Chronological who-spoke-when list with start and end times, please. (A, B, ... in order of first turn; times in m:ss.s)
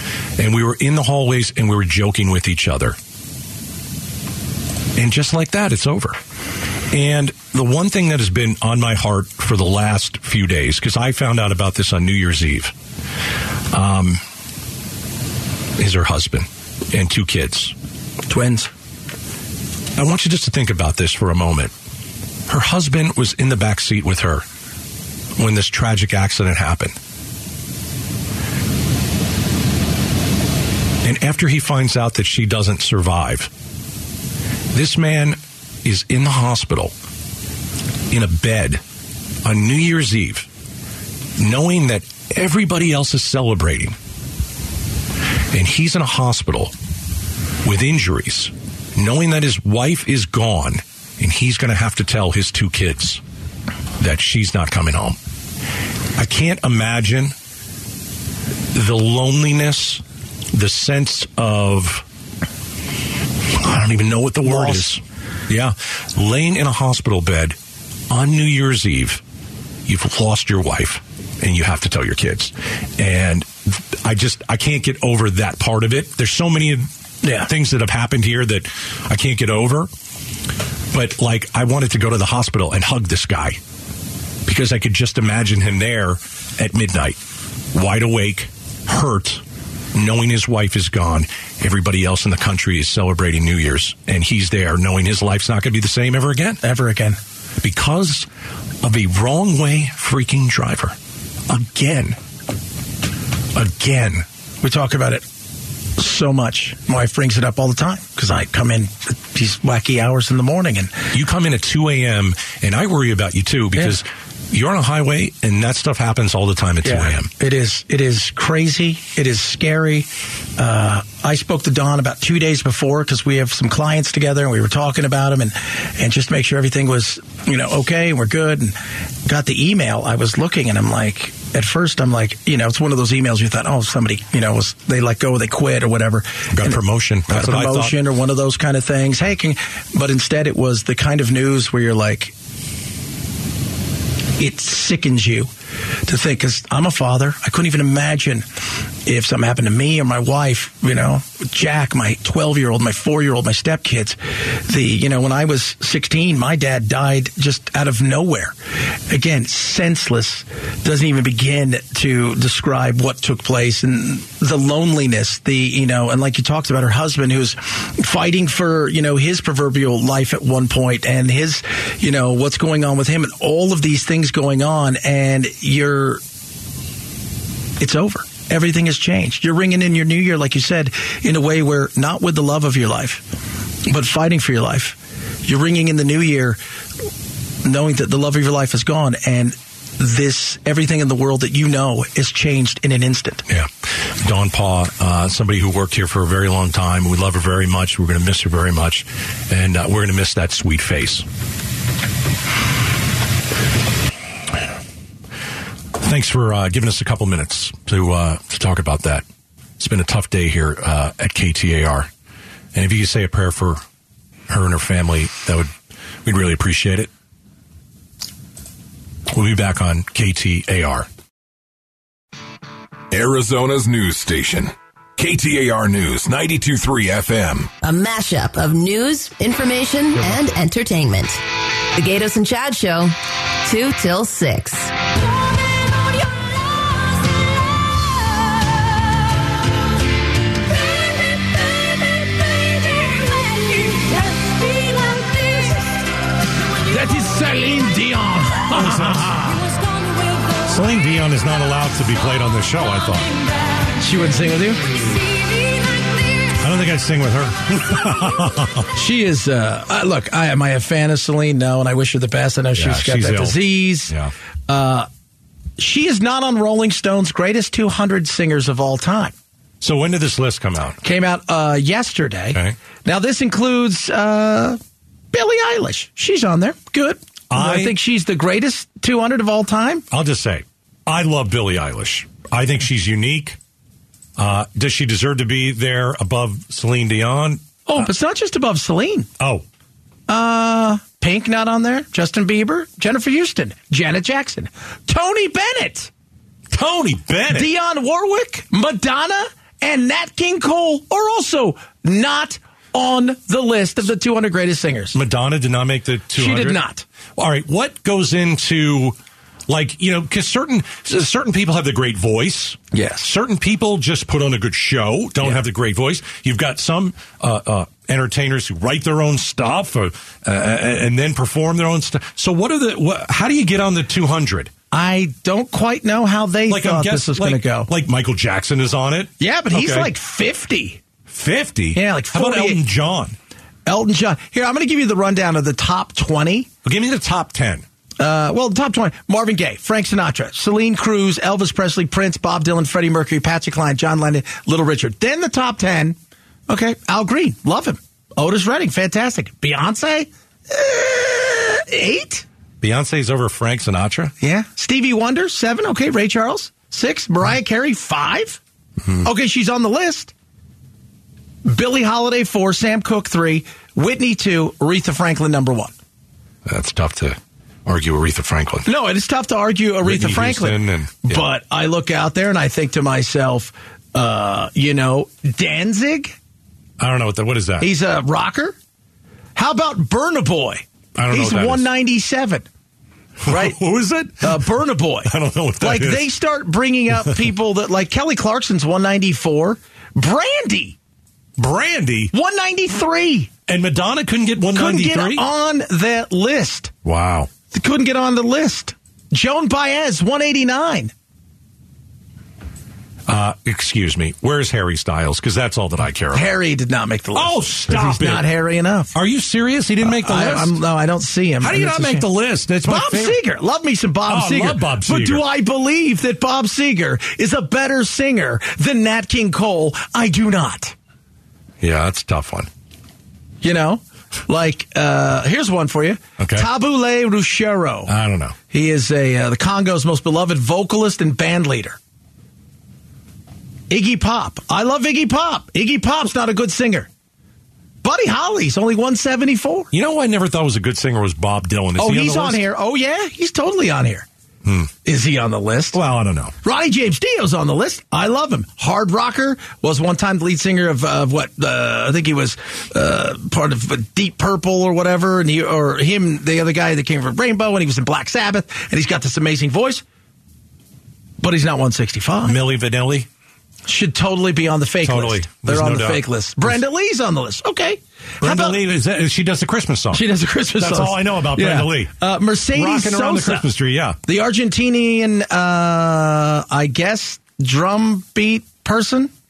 0:00.4-0:03.0 A
0:05.0-0:06.2 A
0:06.9-0:12.7 A
0:13.7-0:14.2 A
0:15.8-0:17.8 A
0:18.3-0:18.7 B
0:20.0-0:21.7 A
0:22.5-0:24.5 A
0:25.4-0:27.0 A
0:31.0-0:33.5 A
0:34.7-0:36.9 A
0:38.1-0:38.8 A
0:39.4-0:40.5 A
0:41.4-0:44.0 A
0:45.5-0:46.7 A
0:47.6-0:53.2 A
0:54.0-0:55.2 A
0:56.2-0:57.4 A
0:58.7-1:02.0 A
1:03.5-1:07.6 A
1:04.4-1:04.9 B
1:08.1-1:09.2 A
1:09.9-1:16.9 A
1:17.2-1:17.5 B
1:17.4-1:19.9 A
1:20.9-1:23.6 A
1:24.5-1:27.2 A
1:27.7-1:36.6 A
1:36.6-1:37.2 B
1:37.6-1:38.3 A
1:38.8-1:41.0 A
1:41.5-1:42.2 A
1:43.6-1:44.2 A
1:44.6-1:45.3 B
1:46.0-1:51.0 B
1:51.1-1:57.3 A
1:56.8-2:22.3 B
2:16.5-2:18.0 A
2:24.4-2:25.5 B
2:26.0-2:28.5 B
2:29.1-2:38.6 B
2:39.1-2:56.2 B
2:57.8-3:03.2 B
3:03.8-3:06.6 B
3:07.6-3:13.5 B
3:13.5-3:21.3 A
3:26.0-3:29.2 A
3:29.8-3:32.1 A
3:32.7-3:33.8 A
3:34.5-3:35.7 A
3:36.2-3:37.1 A
3:39.3-3:41.1 A
3:43.1-3:47.7 C
3:47.8-3:51.4 D
3:51.9-3:55.0 D
4:04.9-4:05.8 D
4:06.9-4:09.6 B
4:08.7-4:09.6 A
4:10.6-4:13.4 A
4:14.0-4:15.1 B
4:16.5-4:18.9 A
4:19.0-4:24.1 B
4:22.8-4:24.3 A
4:24.7-4:25.1 B
4:25.8-4:29.3 B
4:29.8-4:31.0 A
4:31.0-4:34.8 B
4:35.3-4:40.0 B
4:37.5-4:38.0 A
4:40.1-4:43.6 A
4:44.4-4:48.1 A
4:47.9-4:49.3 B
4:49.4-4:49.6 A
4:50.3-4:56.1 B
4:56.7-4:57.7 A
4:57.5-5:05.2 B
5:05.1-5:06.8 A
5:06.3-5:07.0 B
5:07.4-5:09.2 A
5:09.7-5:24.7 A
5:12.9-5:13.3 B
5:24.9-5:27.9 B
5:26.7-5:30.1 A
5:29.4-5:31.0 B
5:31.3-5:33.4 A
5:31.9-5:32.8 B
5:33.9-5:36.7 B
5:36.8-5:37.8 A
5:38.2-5:46.2 B
5:46.7-5:52.4 B
5:52.8-5:54.3 A
5:54.4-5:58.6 B
5:59.2-6:00.3 B
6:01.6-6:05.9 B
6:06.6-6:08.9 A
6:08.8-6:16.4 B
6:10.0-6:11.4 A
6:17.0-6:17.9 A
6:17.8-6:18.8 B
6:19.6-6:22.7 B
6:21.2-6:21.9 A
6:23.4-6:24.6 A
6:23.5-6:23.8 B
6:24.4-6:31.0 B
6:25.2-6:26.3 A
6:31.6-6:32.3 A
6:32.3-6:33.5 B
6:33.7-6:35.4 A
6:34.7-6:36.9 B
6:37.0-6:37.5 A
6:37.7-6:41.1 B
6:43.3-6:46.5 A
6:46.3-6:49.1 B
6:47.3-6:48.5 A
6:49.1-6:50.8 A
6:50.0-6:52.3 B
6:51.6-6:53.4 A
6:52.8-7:01.0 B
6:54.3-6:55.4 A
7:01.8-7:02.7 A
7:03.6-7:08.1 B
7:06.4-7:06.7 A
7:08.1-7:08.6 A
7:08.7-7:12.0 B
7:13.9-7:17.1 B
7:18.0-7:19.9 B
7:19.9-7:22.6 A
7:22.0-7:24.3 B
7:24.6-7:24.9 A
7:25.0-7:26.0 B
7:25.9-7:26.5 A
7:26.6-7:40.0 B
7:41.4-7:42.6 B
7:42.4-7:43.3 A
7:43.9-7:48.8 B
7:45.0-7:46.2 A
7:48.4-7:52.1 A
7:50.1-7:53.7 B
7:52.7-7:54.2 A
7:54.2-7:59.3 B